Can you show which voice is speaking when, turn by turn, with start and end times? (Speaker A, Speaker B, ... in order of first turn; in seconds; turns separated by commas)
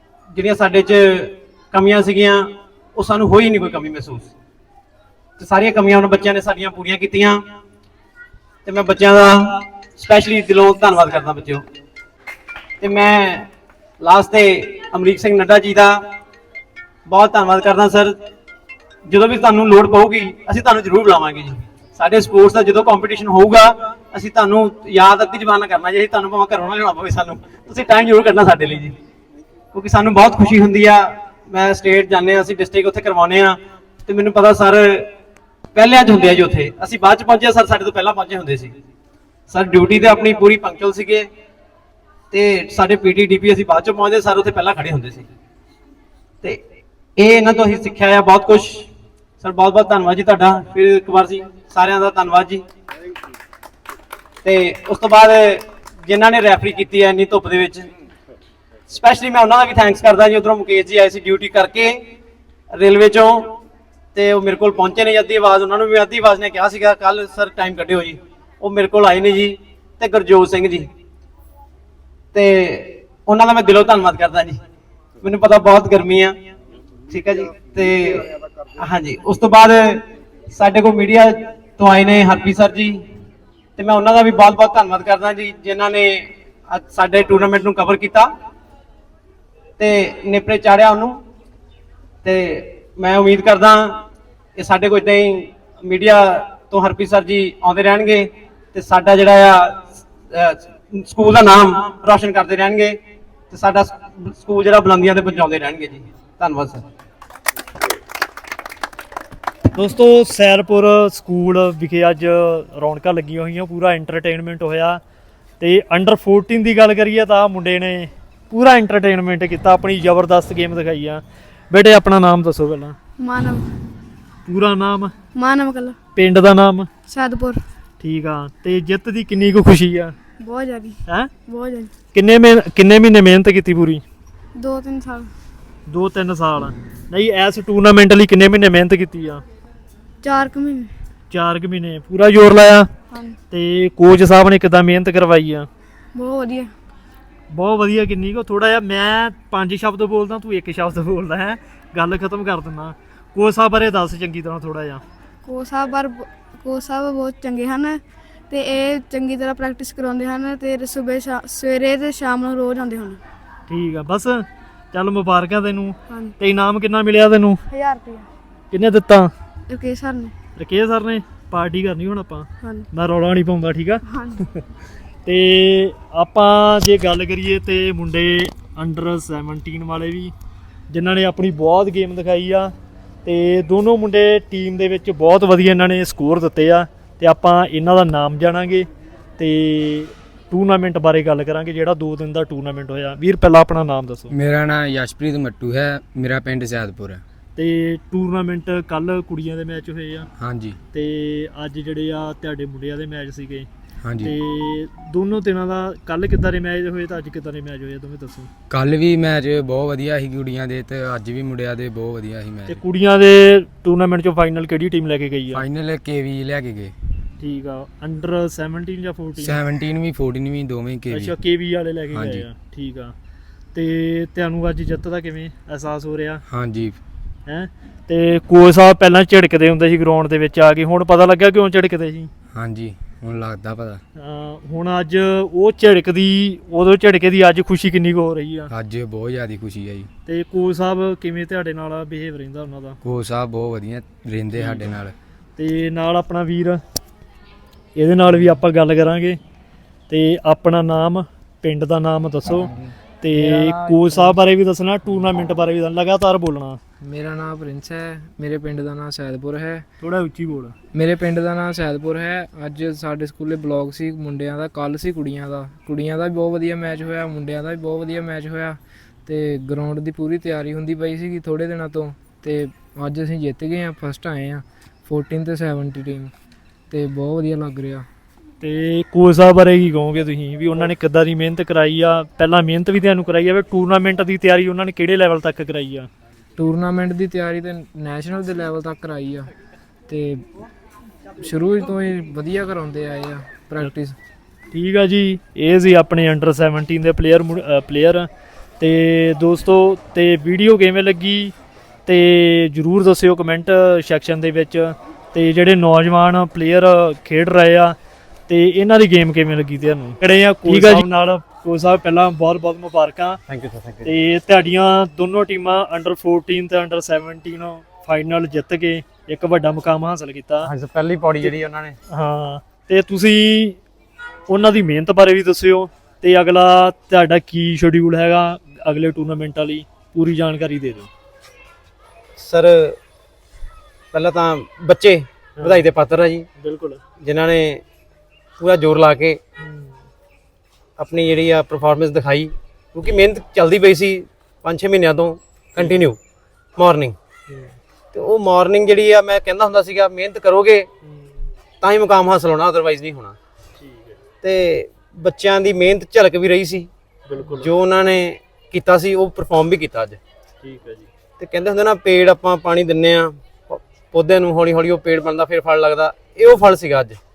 Speaker A: 0.3-4.3, Speaker A: 5.4-7.4, Speaker A: 8.7-11.7, Speaker A: 12.8-13.5, Speaker A: 14.0-16.0, Speaker A: 17.1-18.2, Speaker A: 19.1-28.9, Speaker A: 29.7-35.1, Speaker A: 35.8-38.7, Speaker A: 39.5-41.3, Speaker A: 42.3-45.3, Speaker A: 47.2-48.9, Speaker A: 49.4-52.6, Speaker A: 54.4-57.9, Speaker A: 58.9-62.0, Speaker A: 62.7-63.5, Speaker A: 64.2-70.9, Speaker A: 72.3-74.6, Speaker A: 75.2-76.4, Speaker A: 77.1-78.3, Speaker A: 78.8-83.0, Speaker A: 83.8-88.3, Speaker A: 89.8-91.2, Speaker A: 92.2-94.0, Speaker A: 94.6-103.0, Speaker A: 103.5-106.8, Speaker B: 109.8-115.0, Speaker B: 115.6-123.0, Speaker C: 123.2-123.7, Speaker B: 124.5-125.1, Speaker C: 125.4-126.0, Speaker B: 126.2-126.9, Speaker C: 127.1-127.6, Speaker B: 128.0-130.2, Speaker C: 130.4-131.9, Speaker B: 132.1-134.0, Speaker C: 134.6-135.3, Speaker B: 135.9-139.4, Speaker C: 140.2-140.9, Speaker B: 141.3-142.9, Speaker C: 143.1-143.4, Speaker B: 143.5-145.7, Speaker C: 146.2-146.7, Speaker B: 147.5-155.0, Speaker C: 155.4-163.2, Speaker B: 163.7-167.6, Speaker C: 166.1-166.3, Speaker C: 167.7-168.3, Speaker B: 168.7-169.3, Speaker C: 169.7-170.3, Speaker B: 170.6-174.0, Speaker C: 172.6-172.9, Speaker C: 174.1-174.4, Speaker B: 175.3-180.3, Speaker B: 180.9-182.7, Speaker B: 183.2-188.9, Speaker B: 189.4-194.3, Speaker D: 194.3-197.2, Speaker B: 197.6-200.3, Speaker D: 200.4-200.8, Speaker B: 200.9-203.7, Speaker D: 204.0-204.3, Speaker B: 204.2-208.5, Speaker D: 208.7-212.8, Speaker B: 212.7-215.6, Speaker D: 215.5-216.9, Speaker B: 217.4-219.6, Speaker D: 219.4-221.4, Speaker B: 221.1-223.1, Speaker D: 222.1-222.5, Speaker B: 223.7-226.4, Speaker D: 226.5-227.0, Speaker B: 227.5-232.3, Speaker D: 232.5-234.0, Speaker B: 234.2-238.7, Speaker D: 238.7-240.1, Speaker B: 240.3-243.0, Speaker D: 243.0-245.2, Speaker B: 244.6-244.8, Speaker B: 245.6-246.8, Speaker B: 248.0-249.4, Speaker B: 250.1-252.7, Speaker E: 252.6-254.4, Speaker B: 253.2-256.8, Speaker E: 257.0-259.9, Speaker B: 260.0-260.8, Speaker E: 260.9-276.3, Speaker E: 276.9-278.1, Speaker B: 278.6-286.1, Speaker E: 286.6-289.5, Speaker E: 290.1-290.4, Speaker E: 291.4-294.2, Speaker B: 294.7-298.3, Speaker B: 298.8-301.5, Speaker B: 302.1-308.0, Speaker B: 308.5-313.4, Speaker A: 310.7-311.0, Speaker A: 313.5-314.1, Speaker B: 314.1-320.7, Speaker A: 320.6-322.0, Speaker B: 322.1-323.8, Speaker B: 324.5-331.1, Speaker A: 332.4-333.0, Speaker A: 334.1-336.5, Speaker B: 335.6-335.9, Speaker B: 336.6-337.0, Speaker A: 337.2-337.8, Speaker A: 338.6-339.4, Speaker B: 339.6-340.0, Speaker A: 341.0-346.2, Speaker A: 346.8-347.2, Speaker B: 347.5-347.7, Speaker A: 348.1-350.9, Speaker B: 351.0-351.5, Speaker A: 351.8-353.4, Speaker B: 353.8-354.2, Speaker A: 354.4-356.9, Speaker B: 357.3-357.7, Speaker A: 357.5-360.2, Speaker B: 360.6-361.1, Speaker A: 361.4-367.2